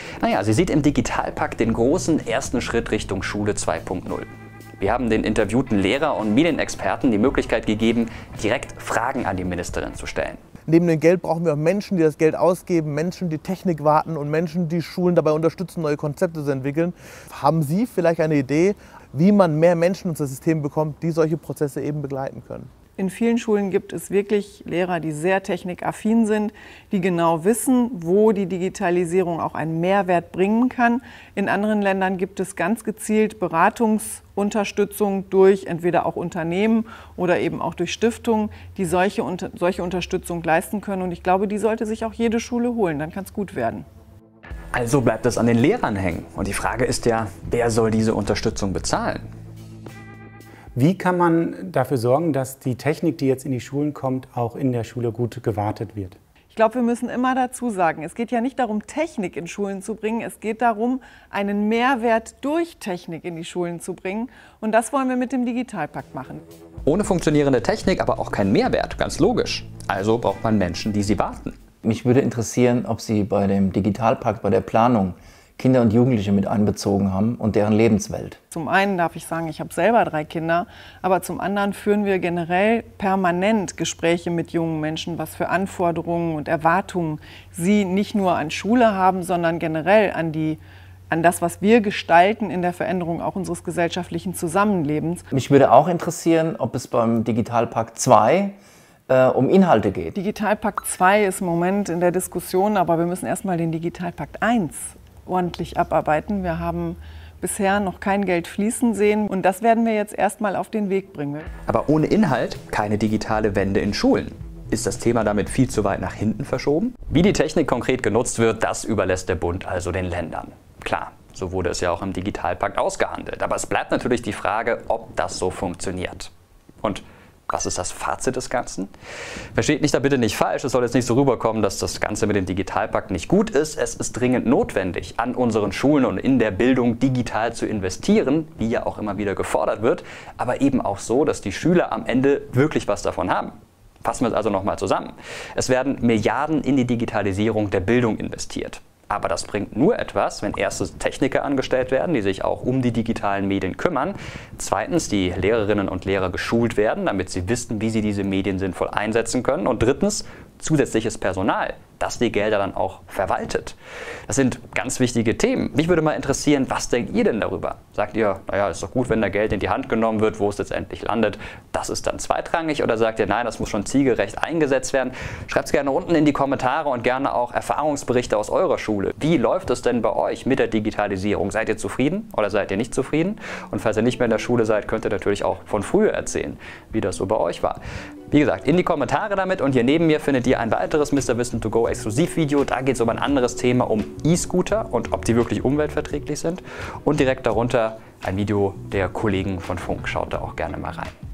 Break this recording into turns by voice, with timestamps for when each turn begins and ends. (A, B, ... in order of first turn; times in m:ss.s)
0:00.2-0:10.4 A
0:10.7-0:22.7 B
0:23.0-0:43.9 C
0:44.7-0:49.3 A
0:50.8-0:56.2 D
0:56.5-1:06.4 C
1:06.9-1:11.6 A
1:11.8-1:18.4 E
1:18.5-1:35.2 C
1:35.3-1:38.6 E
1:39.1-1:40.2 E
1:40.2-1:51.5 C
1:51.7-2:06.3 A
2:06.8-2:08.9 A
2:09.6-2:43.8 A
2:44.3-3:21.1 A